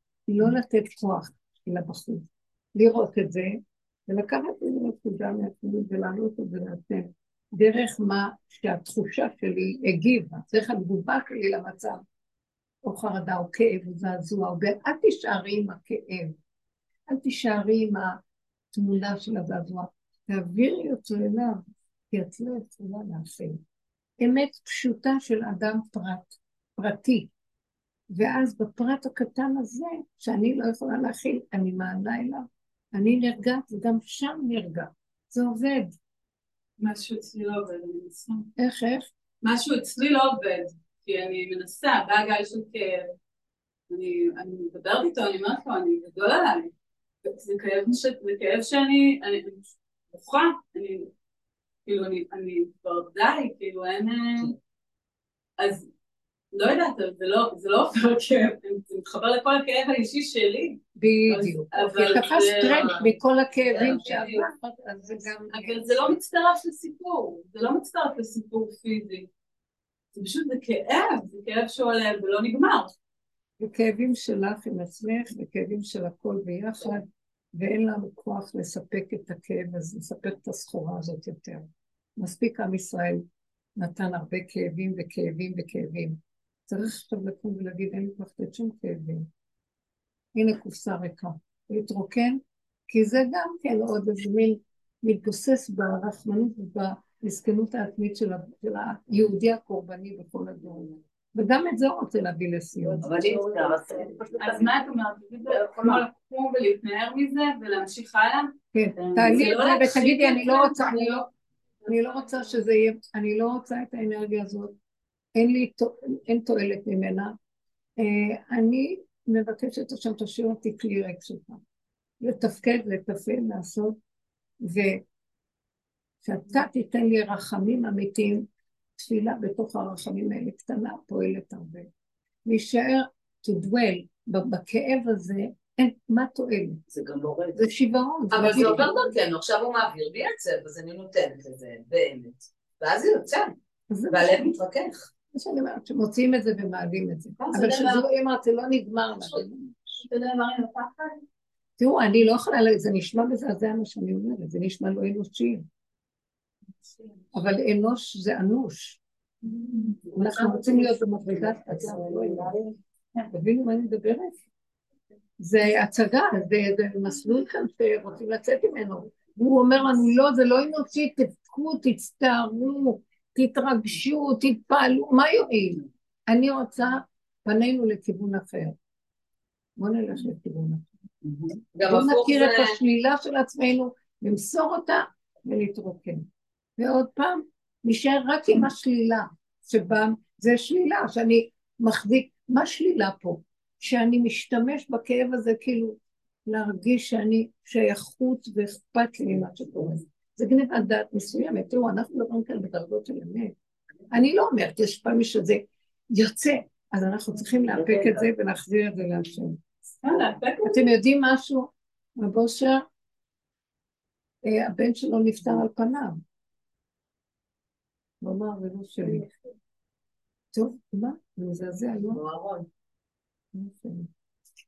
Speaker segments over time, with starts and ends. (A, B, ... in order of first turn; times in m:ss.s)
0:00.3-0:12.0 A
0:12.8-0:16.3 A
0:17.1-0:18.2 A
0:18.7-0:23.6 A
0:24.2-0:27.3 A
0:28.1-0:36.0 A
0:36.8-0:38.5 B
0:38.6-0:39.1 A
0:39.4-0:43.1 B
0:43.9-0:46.7 B
0:47.2-0:51.1 B
0:51.8-0:54.6 B
0:55.6-0:55.9 B
0:56.5-1:03.1 B
1:01.0-1:06.1 A
1:03.7-1:04.4 B
1:05.5-1:09.3 B
1:10.1-1:12.9 B
1:13.6-1:23.2 A
1:23.8-1:29.3 A
1:30.3-1:43.1 A
1:43.0-1:44.6 C
1:43.1-1:44.2 D
1:44.2-1:51.2 B
1:45.7-1:46.0 C
1:48.7-1:51.3 A
1:51.8-1:54.8 A
1:55.4-1:57.4 A
1:58.0-2:01.6 A
2:02.2-2:04.0 A
2:04.6-2:05.0 A
2:06.2-2:11.9 A
2:12.4-2:16.8 A
2:16.9-2:17.6 C
2:17.5-2:19.0 A
2:18.3-2:23.5 D
2:18.4-2:18.9 C
2:23.9-2:24.6 A
2:24.1-2:25.1 D
2:25.3-2:30.0 A
2:27.4-2:28.0 D
2:30.0-2:31.2 B
2:31.8-2:35.6 A
2:37.0-2:37.2 B
2:37.3-2:39.0 A
2:39.4-2:40.7 B
2:40.1-2:42.5 A
2:43.3-2:44.4 A
2:45.4-2:58.7 A
2:59.8-3:00.8 A
3:01.7-3:02.8 D
3:01.8-3:06.2 A
3:06.8-3:23.5 A
3:24.1-3:29.6 A
3:27.9-3:28.2 C
3:30.0-3:30.8 B
3:30.6-3:32.8 A
3:34.4-3:36.2 A
3:38.2-3:39.3 A
3:40.5-3:42.2 A
3:42.0-3:42.7 D
3:43.5-3:44.1 A